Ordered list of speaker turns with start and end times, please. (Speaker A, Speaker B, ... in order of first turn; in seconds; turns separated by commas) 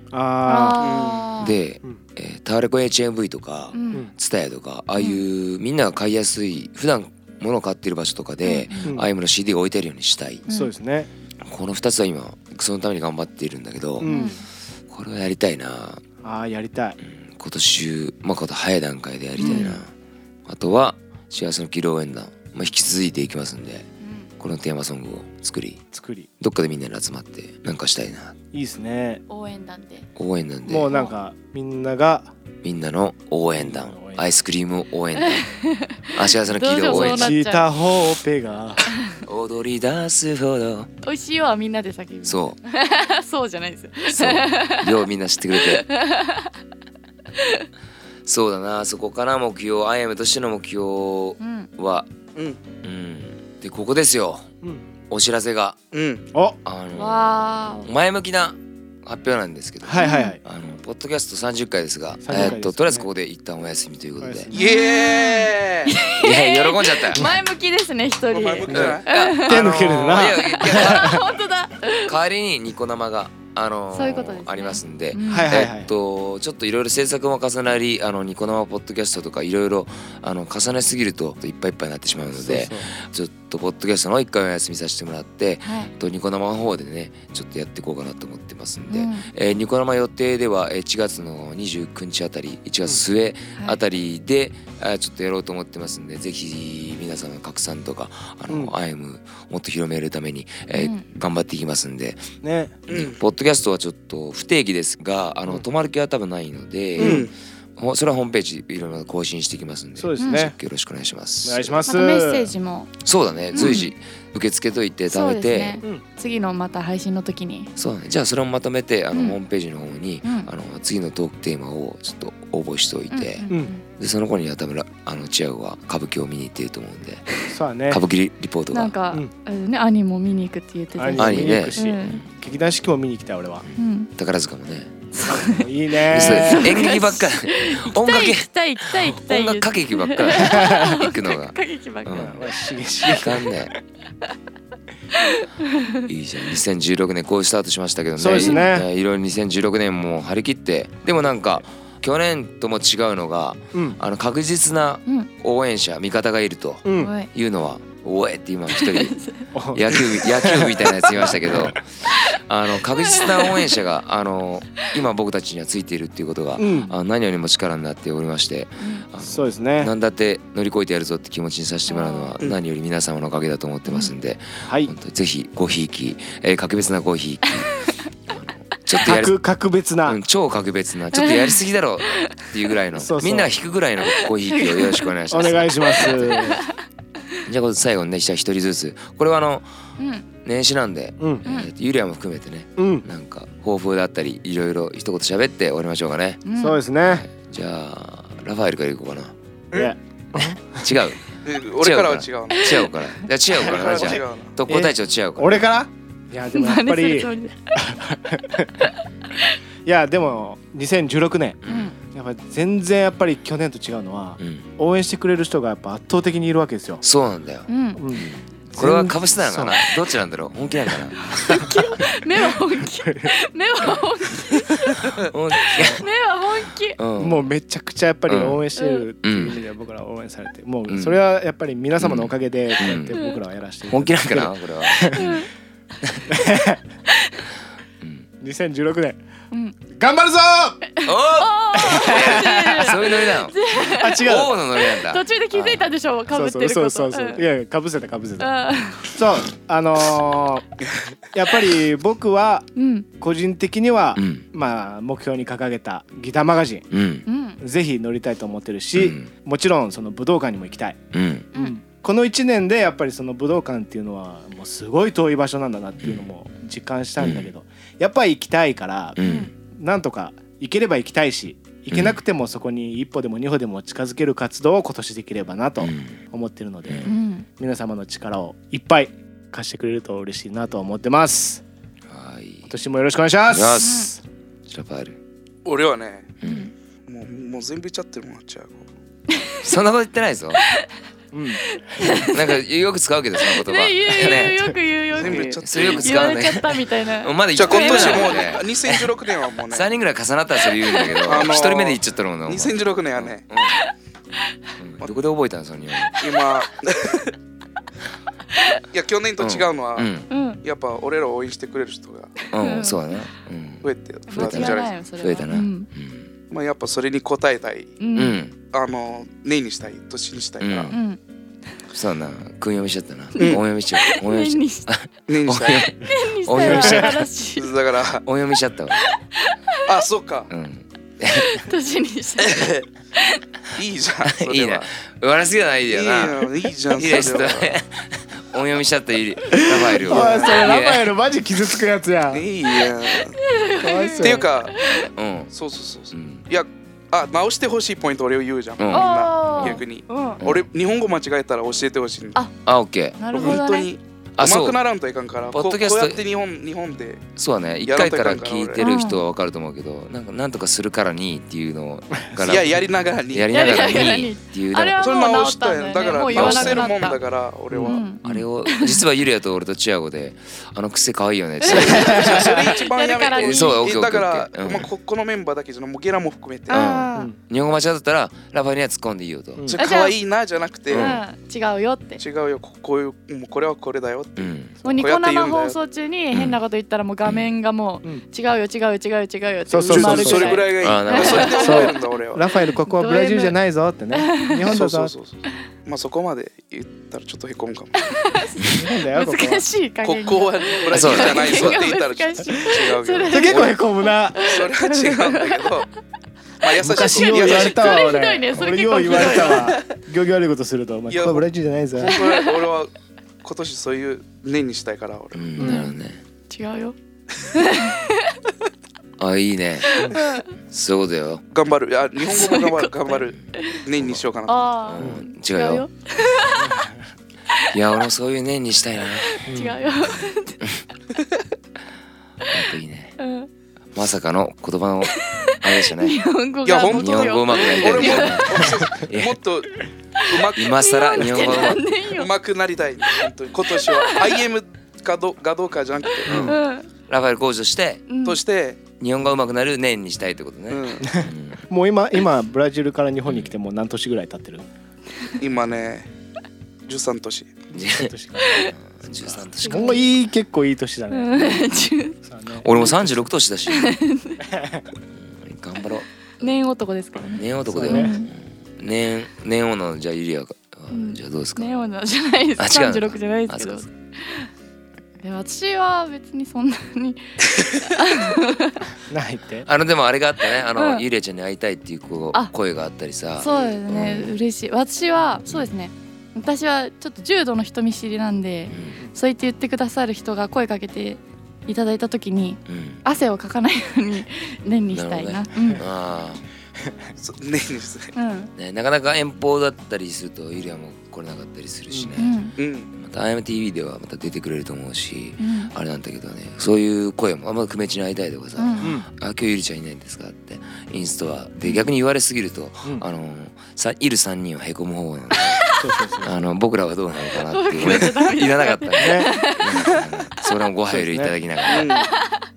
Speaker A: 0.1-0.9, Speaker B: 0.4-1.6, Speaker C: 0.8-1.3, Speaker D: 1.4-10.4, Speaker B: 3.7-4.1, Speaker B: 8.4-8.9, Speaker A: 8.8-9.1, Speaker A: 10.5-11.1, Speaker D: 11.4-14.2, Speaker A: 14.0-14.4, Speaker B: 14.0-14.4, Speaker D: 14.9-16.0, Speaker A: 16.2-17.0, Speaker D: 17.0-19.9, Speaker B: 19.4-19.8, Speaker A: 19.4-19.8, Speaker D: 20.5-23.9, Speaker B: 24.0-24.3, Speaker D: 24.4-25.8, Speaker A: 25.9-26.3, Speaker D: 26.4-28.4, Speaker A: 28.5-29.2, Speaker B: 29.3-30.1, Speaker D: 30.2-30.9, Speaker A: 30.6-32.3, Speaker B: 30.9-31.1, Speaker D: 32.6-35.5, Speaker A: 33.6-34.2, Speaker B: 35.2-37.7, Speaker D: 36.1-37.3, Speaker A: 36.9-38.8, Speaker B: 38.9-39.2, Speaker D: 39.2-40.9, Speaker B: 41.0-44.9, Speaker D: 42.2-42.6, Speaker D: 44.1-45.9, Speaker B: 45.5-46.5, Speaker B: 47.4-47.6, Speaker D: 48.2-52.1, Speaker B: 51.4-51.7, Speaker C: 52.3-52.6, Speaker D: 52.8-54.5, Speaker D: 55.1-55.8, Speaker C: 55.9-56.2, Speaker D: 56.6-64.5, Speaker B: 57.0-57.9, Speaker A: 59.8-60.4, Speaker B: 60.0-60.4, Speaker A: 62.2-63.1, Speaker A: 64.2-64.7, Speaker C: 64.5-66.0, Speaker B: 64.5-69.6, Speaker D: 66.1-67.3, Speaker C: 68.3-69.1, Speaker D: 68.7-71.4, Speaker A: 68.7-71.2, Speaker B: 70.3-72.1, Speaker D: 72.0-102.3, Speaker B: 73.9-75.6, Speaker A: 75.2-75.9, Speaker A: 82.3-82.9, Speaker B: 85.6-85.9, Speaker B: 88.9-89.3, Speaker A: 98.5-98.7, Speaker B: 100.7-101.0, Speaker A: 102.4-102.8, Speaker C: 102.9-103.2, Speaker D: 102.9-111.8, Speaker A: 107.0-107.3, Speaker C: 107.0-107.3, Speaker A: 110.0-110.5, Speaker B: 110.2-110.4, Speaker A: 111.4-112.5, Speaker B: 111.9-113.0, Speaker D: 113.0-115.8, Speaker B: 113.5-113.9, Speaker B: 115.1-117.7, Speaker D: 117.8-128.9, Speaker B: 120.2-120.5, Speaker B: 123.1-123.8, Speaker A: 127.5-128.0, Speaker B: 128.7-132.2, Speaker A: 131.0-133.6, Speaker D: 131.2-132.2, Speaker B: 133.8-134.1, Speaker D: 134.2-134.9, Speaker B: 135.1-142.3, Speaker A: 135.2-136.8, Speaker D: 136.1-142.5, Speaker A: 140.4-140.9, Speaker A: 142.1-143.5, Speaker D: 143.1-143.8, Speaker B: 145.2-146.1, Speaker D: 146.1-159.2, Speaker A: 148.2-148.9, Speaker B: 148.4-148.7, Speaker A: 156.8-157.1, Speaker B: 156.9-157.3, Speaker B: 158.7-159.5, Speaker A: 159.5-161.8, Speaker D: 159.7-179.4, Speaker B: 162.8-163.8, Speaker A: 166.6-166.9, Speaker B: 168.8-169.0, Speaker A: 169.2-169.9, Speaker B: 171.9-172.3, Speaker B: 173.9-174.1, Speaker A: 174.6-174.9, Speaker A: 179.0-180.2, Speaker D: 180.0-186.5, Speaker B: 181.1-182.5, Speaker A: 182.9-183.5, Speaker B: 184.0-185.1, Speaker A: 185.3-186.6, Speaker B: 186.0-186.8, Speaker D: 187.4-189.7, Speaker B: 190.0-190.2, Speaker D: 190.4-196.4, Speaker A: 191.2-191.4, Speaker A: 192.8-193.1, Speaker B: 196.4-196.8, Speaker A: 196.6-197.2, Speaker D: 197.0-199.3, Speaker A: 199.7-200.9, Speaker D: 200.3-205.7, Speaker C: 201.4-202.7, Speaker B: 202.5-202.9, Speaker C: 203.5-204.5, Speaker A: 203.7-208.9, Speaker B: 206.5-207.7, Speaker A: 209.8-217.0, Speaker D: 211.6-211.9, Speaker B: 211.7-211.9, Speaker D: 214.4-214.7, Speaker D: 217.0-221.7, Speaker B: 217.7-218.0, Speaker A: 217.9-219.8, Speaker B: 221.2-227.0, Speaker A: 222.4-223.3, Speaker D: 224.8-226.0, Speaker D: 227.0-227.5, Speaker A: 227.2-235.4, Speaker D: 228.3-228.6, Speaker B: 228.8-229.1, Speaker D: 229.2-229.6, Speaker D: 230.9-231.2, Speaker D: 232.0-233.2, Speaker B: 233.1-233.4, Speaker D: 233.9-235.4, Speaker B: 235.1-235.5, Speaker D: 236.0-236.3, Speaker A: 236.3-236.8, Speaker B: 237.1-237.4, Speaker D: 238.0-238.3, Speaker A: 238.4-239.2, Speaker B: 239.5-239.8, Speaker A: 239.9-240.8, Speaker B: 240.9-247.4, Speaker D: 241.0-243.6, Speaker A: 241.8-243.2, Speaker A: 243.8-244.6, Speaker D: 244.2-245.8, Speaker A: 246.3-248.5, Speaker B: 248.4-249.1, Speaker A: 249.1-250.6, Speaker A: 251.3-252.7, Speaker B: 252.8-253.1, Speaker A: 253.2-256.9, Speaker D: 254.2-254.4, Speaker D: 256.9-257.2, Speaker B: 257.2-257.6, Speaker A: 257.6-261.0, Speaker D: 258.9-259.3, Speaker D: 261.1-261.5, Speaker B: 261.5-261.8, Speaker A: 261.5-269.2, Speaker D: 267.2-267.5, Speaker D: 269.2-269.5, Speaker B: 269.2-269.5, Speaker A: 269.7-281.6, Speaker D: 271.9-272.2, Speaker D: 275.8-276.2, Speaker B: 277.0-277.4, Speaker D: 282.1-282.7, Speaker A: 282.7-284.2, Speaker D: 283.5-284.1, Speaker B: 283.8-284.1, Speaker D: 284.7-285.2, Speaker C: 285.6-286.3, Speaker D: 286.4-286.7, Speaker B: 286.4-286.7, Speaker C: 287.1-288.9, Speaker D: 289.6-290.6, Speaker A: 291.3-291.6, Speaker B: 291.7-292.6, Speaker D: 292.2-294.6, Speaker B: 293.4-298.5, Speaker C: 295.1-296.4, Speaker D: 295.1-299.1, Speaker C: 297.5-299.9, Speaker D: 299.7-303.8, Speaker B: 300.8-301.4, Speaker C: 301.2-303.4, Speaker B: 303.6-303.9, Speaker D: 304.8-306.2, Speaker C: 306.2-307.3, Speaker C: 308.9-310.1, Speaker D: 309.4-310.3, Speaker B: 310.3-310.6, Speaker C: 310.6-312.3, Speaker D: 312.5-316.3, Speaker B: 312.5-313.2, Speaker C: 313.8-314.9, Speaker B: 314.3-315.9, Speaker C: 316.5-317.9, Speaker B: 318.0-318.4, Speaker D: 318.1-318.5, Speaker C: 318.6-320.9, Speaker D: 320.6-321.0, Speaker B: 320.9-321.2, Speaker D: 321.9-327.2, Speaker B: 323.3-324.9, Speaker C: 323.4-323.6, Speaker C: 325.3-325.9, Speaker B: 326.0-327.7, Speaker A: 326.6-327.1, Speaker C: 327.6-328.2, Speaker D: 328.2-329.0, Speaker B: 329.0-329.8, Speaker C: 329.9-330.5, Speaker D: 330.5-331.6, Speaker B: 331.3-333.4, Speaker C: 332.4-332.9, Speaker C: 333.7-334.9, Speaker D: 334.2-341.1, Speaker C: 335.9-337.7, Speaker A: 339.5-342.4, Speaker C: 340.1-340.5, Speaker C: 342.3-343.4, Speaker B: 343.1-345.1, Speaker A: 343.8-344.5, Speaker C: 344.2-344.8, Speaker D: 345.1-345.5, Speaker C: 345.5-352.4, Speaker D: 346.1-346.4, Speaker D: 348.8-349.8, Speaker B: 348.9-350.4, Speaker D: 352.6-353.6, Speaker B: 353.2-353.9, Speaker C: 353.3-357.2, Speaker D: 354.4-354.8, Speaker D: 355.5-356.2, Speaker D: 357.4-365.0, Speaker C: 357.9-358.8, Speaker B: 358.8-359.2, Speaker C: 362.4-364.1, Speaker B: 363.5-367.2, Speaker C: 365.0-368.1, Speaker D: 366.3-366.9, Speaker A: 367.7-368.0, Speaker B: 367.8-369.0, Speaker D: 368.2-372.5, Speaker B: 371.6-373.8, Speaker C: 371.7-376.9, Speaker A: 372.0-372.5, Speaker D: 373.3-374.9, Speaker B: 376.7-377.3, Speaker D: 376.7-379.7, Speaker C: 379.7-381.2, Speaker B: 379.8-380.2, Speaker D: 380.9-381.2, Speaker B: 380.9-382.2, Speaker C: 382.2-385.8, Speaker D: 384.4-384.7, Speaker B: 384.8-391.9, Speaker D: 386.3-386.6, Speaker D: 387.2-387.5, Speaker A: 389.7-390.6, Speaker C: 389.9-392.5, Speaker D: 390.8-391.8, Speaker A: 391.5-395.1, Speaker B: 392.8-393.6, Speaker B: 394.1-394.7, Speaker C: 394.6-398.2, Speaker B: 398.0-405.8, Speaker A: 398.6-399.6, Speaker C: 400.0-403.8, Speaker D: 400.9-401.8, Speaker A: 403.3-404.5, Speaker C: 404.4-405.9, Speaker C: 406.6-408.2, Speaker A: 406.8-412.2, Speaker B: 407.0-409.8, Speaker C: 409.2-409.7, Speaker C: 411.1-411.4, Speaker C: 412.0-412.9, Speaker B: 412.0-412.6, Speaker C: 413.4-415.4, Speaker D: 415.3-416.2, Speaker A: 415.6-415.8, Speaker B: 415.6-415.9, Speaker B: 416.5-416.9, Speaker B: 417.5-418.4, Speaker D: 419.2-421.4, Speaker B: 419.9-420.5, Speaker C: 421.5-424.7, Speaker B: 422.2-423.8, Speaker D: 423.1-424.2, Speaker B: 424.5-426.7, Speaker D: 424.9-425.9, Speaker A: 425.0-425.2, Speaker A: 426.6-427.0, Speaker D: 427.7-429.4, Speaker B: 429.3-430.6, Speaker A: 429.5-429.8, Speaker D: 432.5-433.1, Speaker B: 433.2-433.5, Speaker D: 433.9-436.2, Speaker B: 435.2-438.7, Speaker C: 436.6-446.5, Speaker D: 436.8-439.4, Speaker B: 440.2-442.3, Speaker D: 440.6-441.8, Speaker B: 443.7-444.4, Speaker D: 446.2-448.0, Speaker B: 446.3-446.9, Speaker B: 448.1-448.4, Speaker C: 448.2-448.8, Speaker D: 449.0-451.6, Speaker C: 450.7-451.1, Speaker A: 451.0-454.7, Speaker D: 453.2-453.5, Speaker C: 455.4-456.1, Speaker C: 456.9-457.6, Speaker A: 457.7-461.7, Speaker D: 457.7-460.1, Speaker B: 458.4-458.7, Speaker B: 459.6-460.0, Speaker B: 461.1-462.2, Speaker A: 462.2-463.1, Speaker D: 462.6-464.0, Speaker B: 463.7-464.4, Speaker A: 464.4-464.9, Speaker D: 465.1-466.6, Speaker B: 466.4-468.3, Speaker D: 467.3-471.8, Speaker A: 467.7-468.1, Speaker B: 470.9-474.5, Speaker D: 472.6-473.9, Speaker B: 475.2-478.9, Speaker A: 479.1-479.7, Speaker D: 479.6-484.4, Speaker B: 480.7-481.0, Speaker B: 483.4-495.8, Speaker C: 483.4-483.8, Speaker D: 488.7-489.0, Speaker D: 492.6-493.0, Speaker D: 494.9-496.4, Speaker A: 495.5-495.8, Speaker C: 497.2-498.1, Speaker B: 498.1-498.5, Speaker D: 498.6-502.4, Speaker B: 502.1-502.5, Speaker C: 502.6-502.9, Speaker D: 502.9-515.7, Speaker B: 505.4-505.7, Speaker B: 508.6-508.9, Speaker A: 508.8-509.1, Speaker B: 511.6-511.9, Speaker B: 515.5-515.8, Speaker A: 515.8-516.3, Speaker D: 516.2-521.9, Speaker B: 517.5-520.4, Speaker A: 519.0-520.0, Speaker A: 520.9-521.3, Speaker C: 521.6-522.1, Speaker B: 521.8-522.4